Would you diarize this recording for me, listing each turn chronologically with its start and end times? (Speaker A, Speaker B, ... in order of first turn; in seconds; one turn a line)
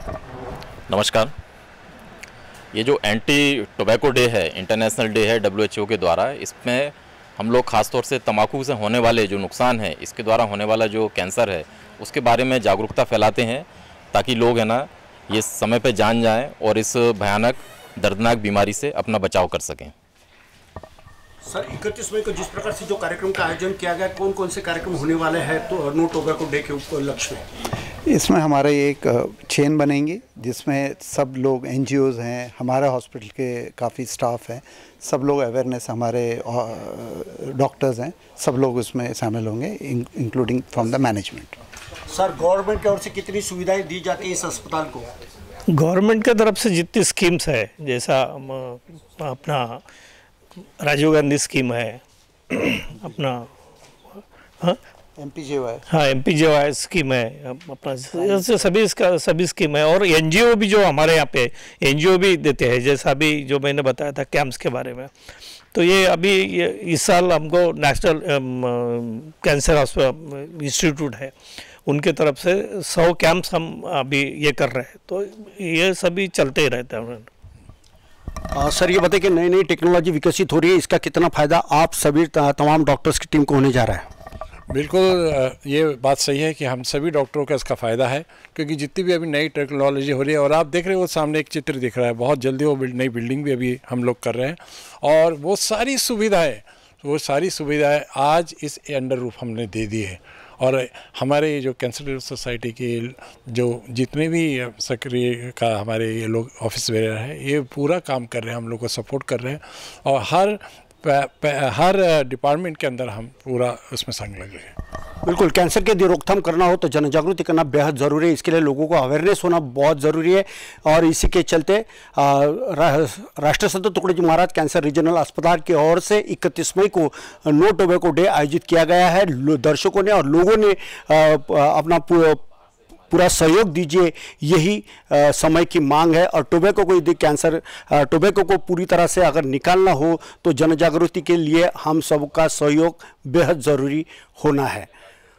Speaker A: 0.9-1.3
Speaker A: 2.7-19.9
Speaker B: 21.4-27.4
Speaker C: 28.1-41.6
Speaker B: 42.1-45.1
Speaker D: 45.7-49.8
Speaker D: 50.8-53.5
Speaker C: 55.2-55.8
Speaker D: 55.9-65.1
Speaker C: 58.2-58.5
Speaker D: 65.7-71.3
Speaker D: 71.8-77.3
Speaker B: 78.5-84.0
Speaker E: 84.7-114.7
Speaker B: 115.2-132.4
Speaker B: 133.1-144.9